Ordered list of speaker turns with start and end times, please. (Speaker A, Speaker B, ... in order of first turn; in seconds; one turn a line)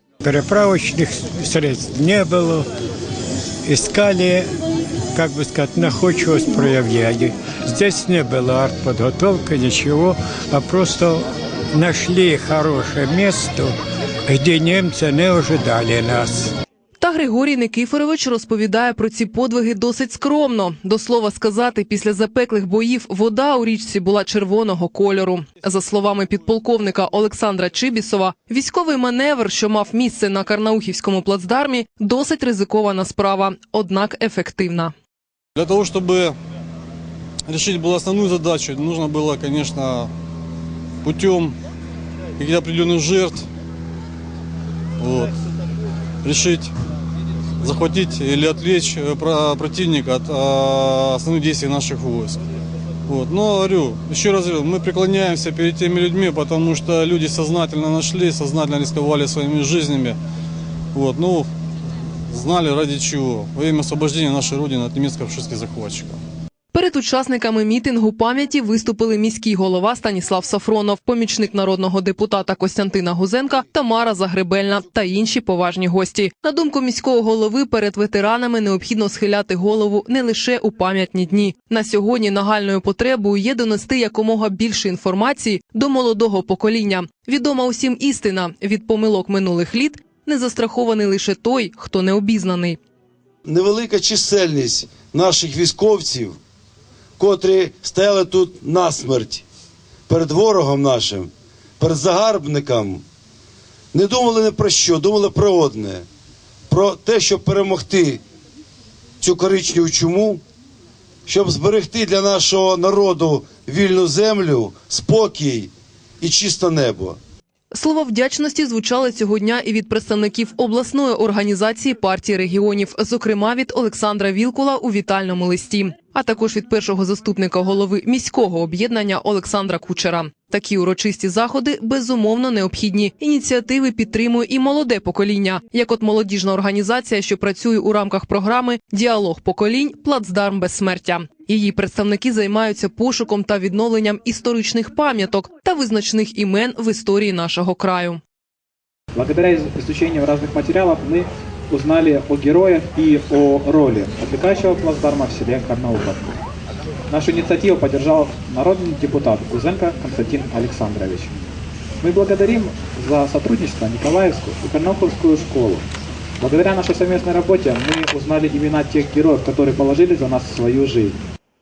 Speaker A: 0.2-2.7
Speaker A: 3.6-4.5
Speaker A: 5.1-16.5
Speaker B: 17.0-34.9
Speaker C: 35.6-36.4
Speaker C: 37.5-40.1
Speaker C: 41.0-41.5
Speaker C: 42.4-43.5
Speaker C: 45.0-45.3
Speaker C: 46.2-46.7
Speaker C: 47.6-52.4
Speaker C: 53.1-60.2
Speaker C: 60.9-61.5
Speaker C: 62.3-66.2
Speaker B: 66.7-92.8
Speaker D: 93.5-96.4
Speaker D: 97.2-99.4
Speaker D: 100.1-103.0
Speaker D: 103.9-106.1
Speaker D: 106.7-108.2
Speaker D: 109.2-110.4
Speaker D: 111.3-117.2
Speaker B: 117.7-148.2
Speaker E: 149.2-156.4
Speaker E: 157.1-161.3
Speaker E: 162.0-165.9
Speaker E: 166.4-171.2